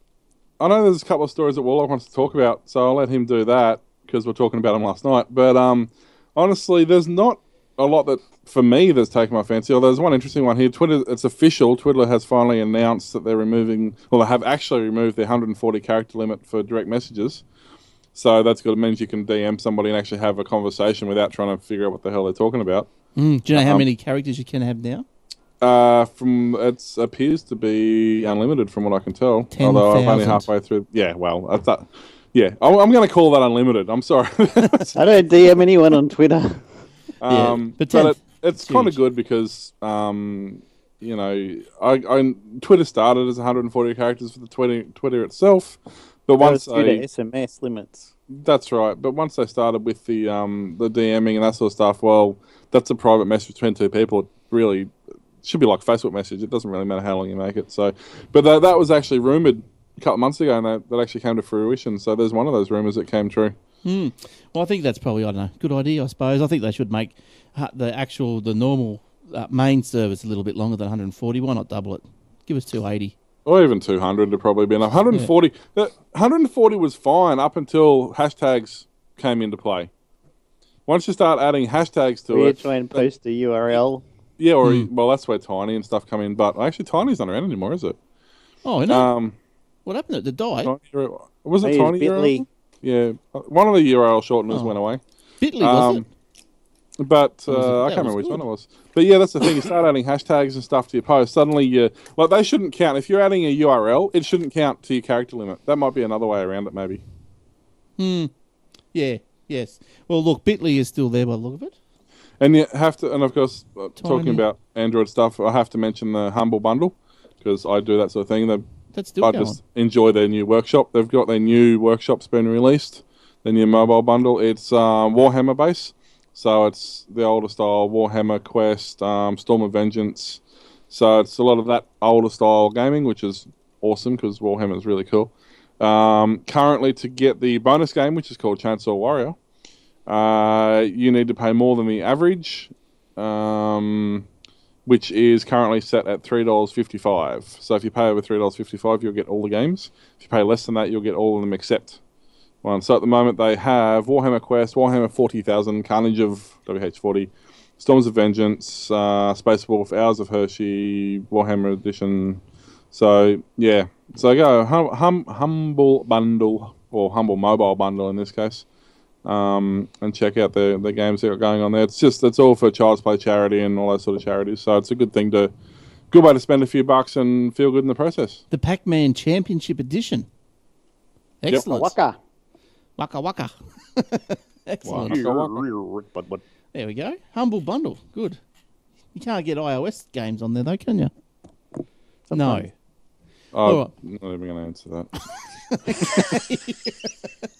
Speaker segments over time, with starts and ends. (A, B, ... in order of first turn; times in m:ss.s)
0:00.6-0:17.4 A
0:18.1-0:22.9 A
0:23.1-0:25.0 B
0:23.5-0:23.8 A
0:25.6-0:35.0 A
0:29.5-0:30.5 B
0:35.0-0:36.6 C
0:37.2-0:47.0 A
0:37.3-0:39.0 B
0:46.4-0:48.1 C
0:48.3-1:03.5 A
1:03.8-1:13.1 B
1:13.4-1:19.9 A
1:20.8-1:23.1 A
1:22.3-1:24.0 C
1:24.4-1:28.0 A
1:24.6-1:24.9 B
1:28.6-1:29.1 B
1:28.9-1:29.3 A
1:29.8-1:30.7 B
1:30.6-1:35.0 A
1:31.6-1:32.4 C
1:35.4-1:36.0 B
1:35.6-1:36.0 A
1:37.0-1:47.0 A
1:37.5-1:38.4 B
1:48.0-1:48.3 B
1:48.9-1:51.7 B
1:52.4-1:58.6 A
1:54.0-1:54.4 B
1:58.9-1:59.6 B
1:59.2-2:19.4 A
2:20.1-2:24.2 A
2:24.8-2:32.0 A
2:32.6-2:48.6 A
2:49.2-2:55.5 A
2:56.1-2:58.4 A
2:58.5-3:00.3 B
3:01.4-3:01.9 B
3:01.5-3:02.2 C
3:03.0-3:05.2 B
3:04.9-3:05.7 A
3:04.9-3:06.4 C
3:06.7-3:08.4 B
3:09.1-3:11.1 B
3:12.3-3:12.7 C
3:12.3-3:12.7 B
3:13.5-3:15.1 A
3:13.6-3:13.9 B
3:15.7-3:17.3 B
3:16.0-3:16.4 A